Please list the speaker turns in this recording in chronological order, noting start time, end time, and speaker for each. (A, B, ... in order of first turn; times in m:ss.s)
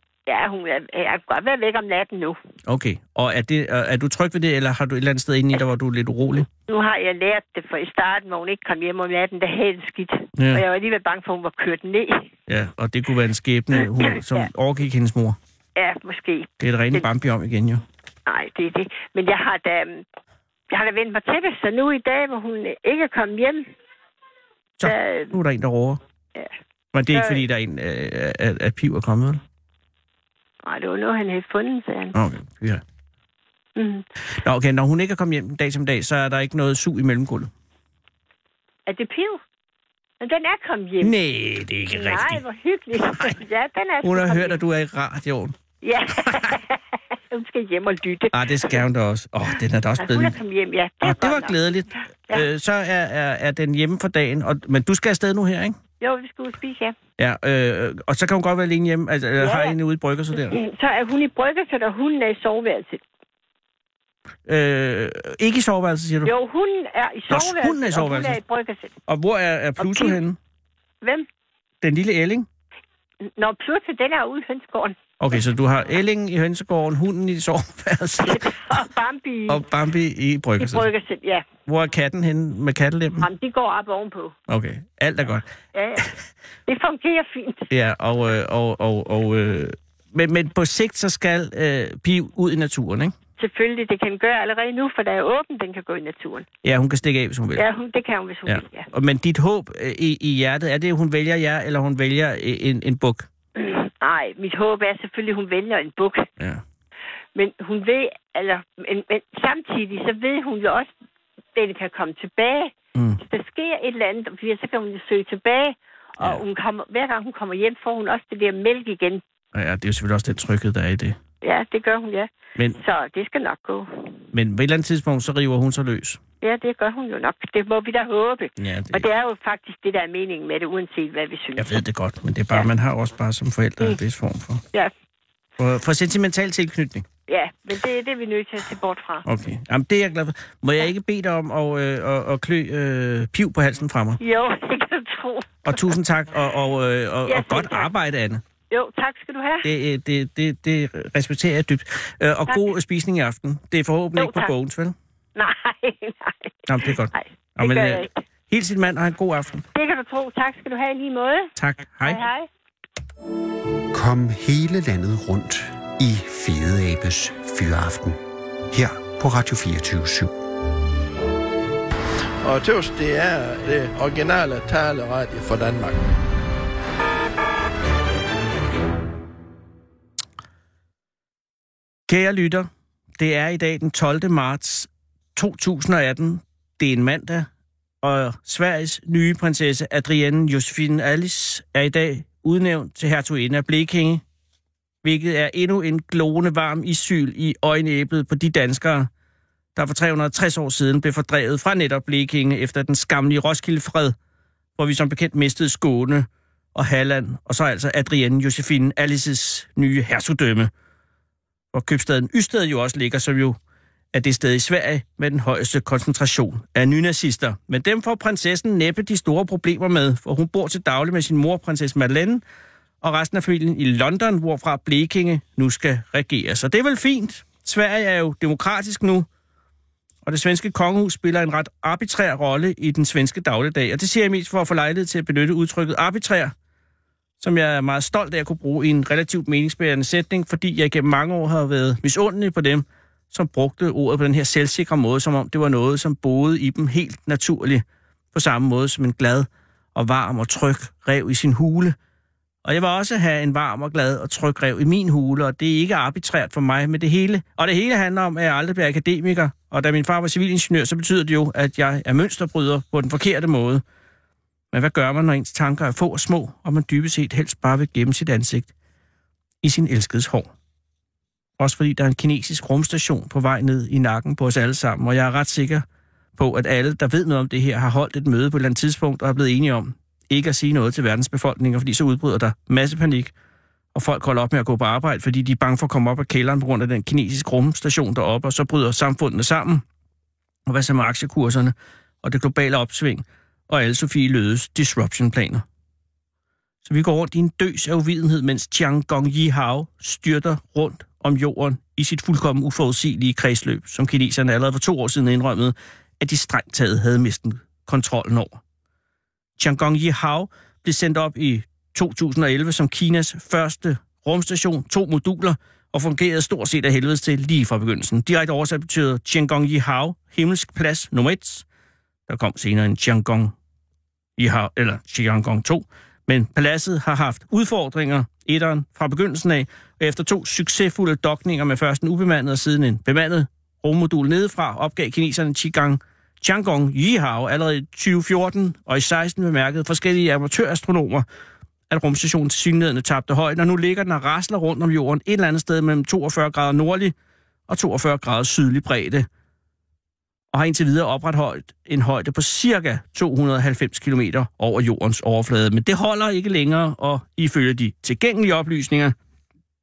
0:00.3-0:02.4 A
0:02.7-0:06.5 B
0:06.7-0:12.3 A
0:10.4-0:10.6 B
0:12.5-0:15.4 B
0:13.8-0:14.5 A
0:15.8-0:17.1 A
0:16.6-0:17.8 B
0:18.3-0:20.0 A
0:20.7-0:23.7 A
0:24.8-0:26.0 B
0:24.8-0:25.4 A
0:26.9-0:29.4 B
0:27.1-0:27.4 A
0:30.6-0:32.2 A
0:32.1-0:32.8 B
0:33.8-0:34.0 A
0:34.3-0:37.5 B
0:38.9-0:39.4 A
0:40.2-0:41.1 A
0:41.0-0:42.4 B
0:41.9-0:44.6 A
0:44.0-0:45.6 B
0:45.8-0:48.8 A
0:48.3-0:50.4 B
0:50.0-0:51.6 A
0:51.0-0:55.8 B
0:56.0-0:57.0 A
0:57.2-1:00.6 B
0:59.4-0:59.8 A
1:00.4-1:03.0 A
1:04.5-1:06.3 B
1:06.2-1:08.9 A
1:07.3-1:08.4 B
1:09.1-1:10.4 B
1:09.8-1:10.2 A
1:11.0-1:11.3 A
1:11.8-1:12.5 B
1:13.2-1:15.0 A
1:15.2-1:18.8 B
1:18.2-1:19.6 A
1:19.5-1:20.9 B
1:20.6-1:21.5 A
1:21.7-1:23.3 B
1:23.2-1:24.4 A
1:24.5-1:25.4 B
1:25.7-1:26.1 A
1:26.7-1:27.7 A
1:27.7-1:33.2 B
1:33.4-1:36.5 A
1:36.6-1:37.6 B
1:37.6-1:38.9 A
1:38.5-1:43.3 B
1:43.6-1:46.3 A
1:47.4-1:50.9 A
1:51.6-1:59.2 A
1:53.0-1:53.2 B
1:59.5-2:01.2 B
2:01.4-2:04.2 A
2:04.3-2:06.2 B
2:06.4-2:11.8 A
2:08.6-2:09.0 B
2:11.6-2:14.6 B
2:15.6-2:17.1 B
2:17.3-2:19.2 A
2:19.3-2:24.2 B
2:24.2-2:25.9 A
2:25.7-2:28.4 B
2:27.3-2:27.9 A
2:28.7-2:29.7 A
2:29.6-2:35.0 B
2:34.2-2:34.5 A
2:35.4-2:36.6 A
2:36.7-2:39.7 B
2:37.1-2:38.1 A
2:39.8-2:42.5 A
2:41.6-2:42.2 B
2:43.9-2:50.3 C
2:52.4-2:56.1 D
3:02.1-3:07.5 B
3:08.0-3:14.2 B
3:15.0-3:19.1 B
3:19.8-3:24.2 B
3:24.8-3:30.7 B
3:31.7-3:33.6 B
3:34.1-3:42.4 B
3:43.0-3:49.3 B
3:50.2-3:56.5 B
3:57.4-4:12.0 B
4:12.6-4:23.8 B
4:24.7-4:28.7 B
4:29.6-4:30.5 B
4:31.6-4:35.8 B
4:36.4-4:43.3 B
4:43.9-4:49.8 B
4:50.7-4:55.6 B
4:56.8-5:08.6 B
5:09.6-5:21.6 B
5:22.3-5:23.5 B
5:24.4-5:41.2 B
5:41.9-5:47.1 B
5:47.7-5:49.3 B
5:50.5-5:59.2 B